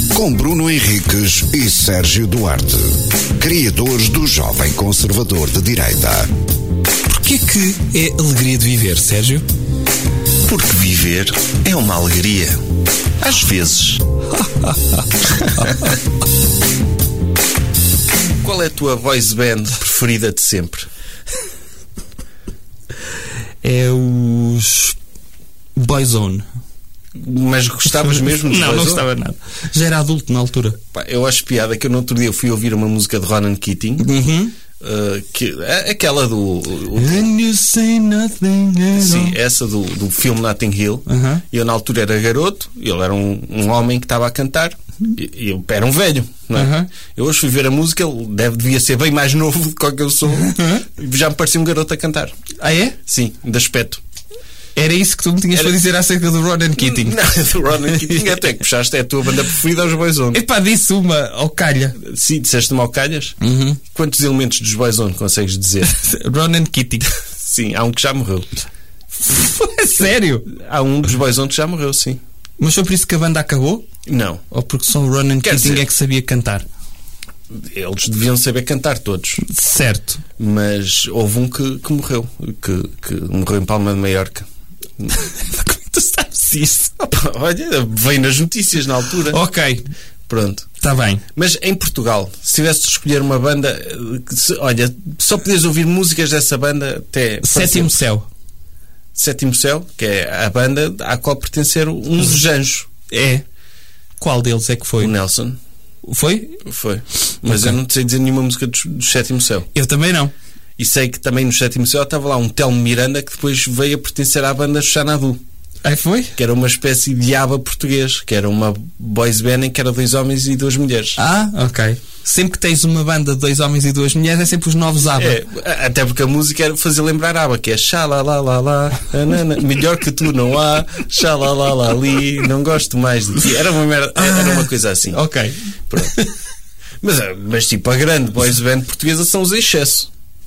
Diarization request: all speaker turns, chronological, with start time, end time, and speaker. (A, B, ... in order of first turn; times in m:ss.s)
0:00.1-0:06.3 A
0:07.1-0:09.4 B
0:10.4-0:12.6 C
0:13.2-0:14.0 C
0:14.3-0:16.0 B
0:18.4-0:20.9 C
0:23.6-0:25.0 B
0:25.8-0:26.4 B
0:27.2-0:29.0 C
0:27.9-0:30.8 B
0:30.9-0:34.0 C
0:34.0-0:34.5 B
0:34.8-0:37.3 C
0:37.0-0:39.4 B
0:39.0-0:52.3 C
0:41.0-0:41.4 B
0:46.5-0:46.9 B
0:50.3-0:50.8 B
0:52.6-0:53.0 B
0:53.1-0:54.0 C
0:54.8-0:57.2 B
0:56.8-1:00.4 C
0:57.9-0:58.4 B
1:00.3-1:02.0 B
1:02.0-1:03.3 C
1:03.4-1:03.8 B
1:03.9-1:05.8 C
1:05.8-1:07.1 B
1:07.4-1:08.5 C
1:09.2-1:10.4 B
1:10.5-1:12.2 C
1:12.6-1:13.8 B
1:14.0-1:14.4 C
1:14.5-1:16.6 B
1:15.4-1:15.8 C
1:17.6-1:19.4 C
1:19.4-1:20.2 B
1:20.4-1:24.4 C
1:25.1-1:26.9 B
1:27.0-1:29.4 C
1:29.3-1:29.8 B
1:30.3-1:30.7 C
1:30.8-1:31.2 B
1:31.4-1:38.0 C
1:37.4-1:38.2 B
1:39.1-1:42.9 C
1:43.1-1:43.4 B
1:44.2-1:45.1 B
1:45.0-1:45.6 C
1:46.0-1:46.6 B
1:46.6-1:49.7 C
1:47.4-1:47.8 B
1:49.7-1:50.3 B
1:50.8-1:55.4 C
1:55.8-1:56.3 B
1:56.4-2:01.2 C
2:01.2-2:05.4 B
2:05.2-2:15.2 C
2:14.2-2:16.3 B
2:17.0-2:20.1 C